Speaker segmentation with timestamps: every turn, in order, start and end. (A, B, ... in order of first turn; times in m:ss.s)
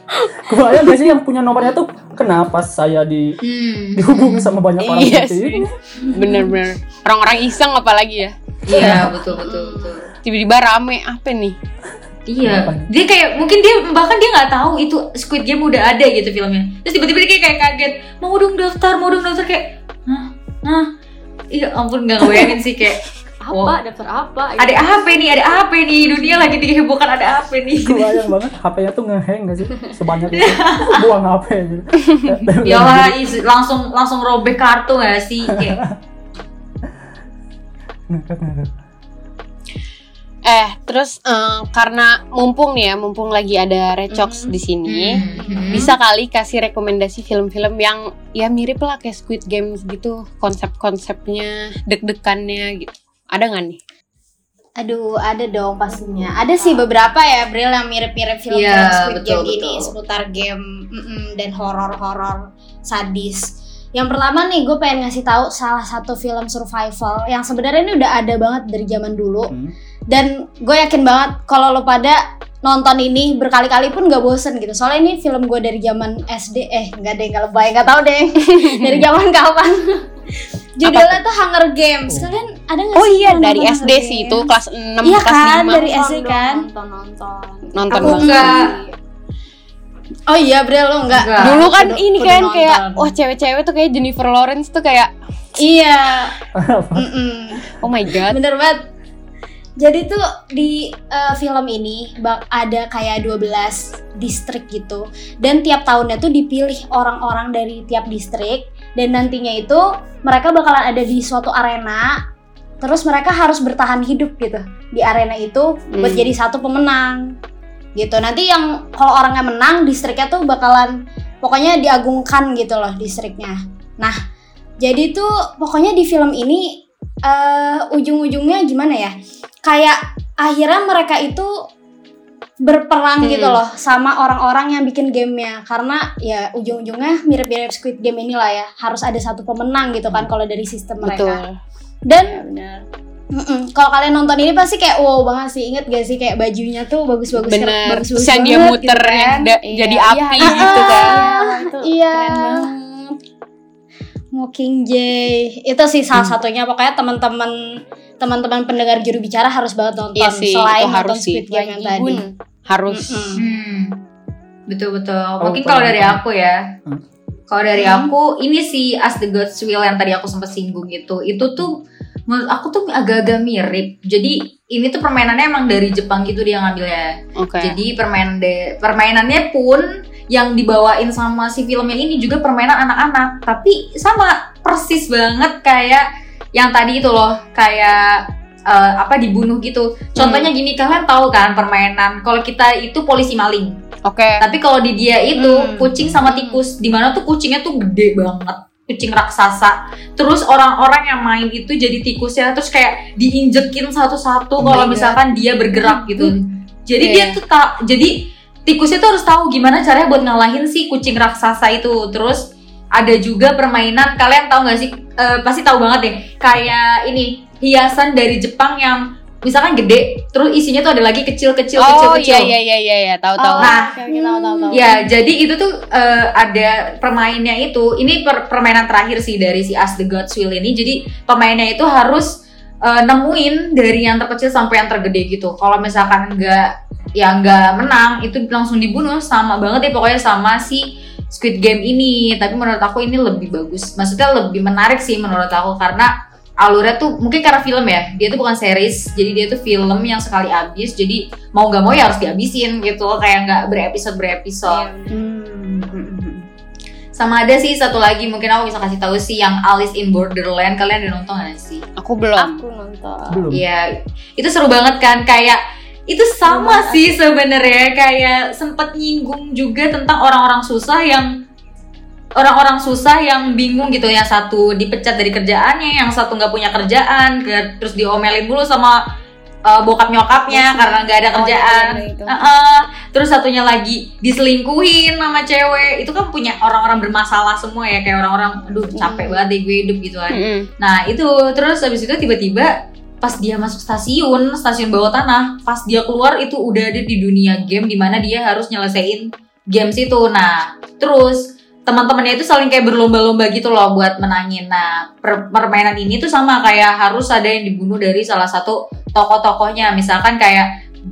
0:00.1-0:00.4 A
0:00.4-0:03.4 B
0:03.4-0:04.5 C
0:04.0-0:05.7 B
0:04.8-0:09.1 A
0:08.7-0:10.1 C
0:08.8-0:09.1 B
0:09.1-0:10.0 D
0:10.2-0:11.6 A
0:12.3-0:20.9 C
0:12.4-0:12.9 B
0:21.5-0:23.8 C
0:23.4-0:25.3 D
0:24.6-0:28.2 C
0:27.8-0:33.2 B
0:30.4-0:31.1 C
0:32.6-0:35.8 C
0:35.5-0:36.0 B
0:38.1-0:38.7 B
0:40.5-0:53.8 A
0:44.9-0:45.9 C
0:45.4-0:46.0 E
0:54.8-1:09.5 E
0:55.9-0:56.9 D
0:58.5-0:59.9 C
1:10.1-1:19.8 E
1:18.5-1:19.0 A
1:20.8-1:24.5 E
1:20.8-1:21.2 A
1:22.1-1:22.4 B
1:23.0-1:25.9 A
1:25.0-1:26.7 E
1:25.7-1:29.0 D
1:27.7-1:28.5 A
1:27.9-1:28.7 C
1:28.0-1:28.7 E
1:30.3-1:33.1 E
1:31.1-1:31.6 C
1:31.4-1:35.1 A
1:35.6-1:36.4 E
1:36.6-1:37.1 B
1:37.0-1:38.8 E
1:37.8-1:38.4 A
1:39.8-1:52.2 E
1:52.8-1:57.4 E
1:55.9-1:56.3 A
1:58.0-2:04.2 E
2:04.8-2:09.1 E
2:09.7-2:11.5 E
2:12.6-2:21.4 E
2:13.2-2:13.6 A
2:21.0-2:21.6 A
2:22.1-2:22.4 E
2:22.2-2:22.8 D
2:23.3-2:29.5 E
2:27.4-2:31.3 A
2:29.6-2:32.7 D
2:30.4-2:33.2 E
2:34.4-2:37.6 E
2:38.2-2:42.2 E
2:40.2-2:41.6 A
2:41.6-2:42.3 D
2:42.7-2:43.3 A
2:42.9-2:43.4 E
2:43.4-2:44.0 C
2:44.7-2:46.6 C
2:45.4-2:46.2 B
2:47.5-2:51.8 C
2:47.8-2:48.1 E
2:52.3-3:13.8 C
2:57.4-2:57.8 A
3:10.2-3:10.5 A
3:14.1-3:14.4 A
3:14.4-3:32.4 C
3:15.4-3:15.9 E
3:16.3-3:16.6 D
3:24.6-3:24.9 B
3:24.6-3:25.2 A
3:25.8-3:26.3 D
3:27.0-3:27.4 A
3:33.0-3:42.5 C
3:41.8-3:43.7 A
3:43.4-3:45.0 D
3:43.6-3:43.9 C
3:43.8-3:44.9 E
3:44.7-3:52.3 C
3:52.8-4:06.1 C
4:06.6-4:14.9 C
4:14.7-4:15.2 D
4:15.1-4:16.5 E
4:17.2-4:21.8 C
4:22.0-4:22.6 A
4:22.4-4:23.5 D
4:23.3-4:23.6 B
4:23.5-4:31.3 C
4:26.4-4:27.2 D
4:32.4-4:39.0 C
4:39.7-5:10.7 C
4:40.5-4:42.4 D
4:49.0-4:49.4 D
4:50.3-4:50.7 A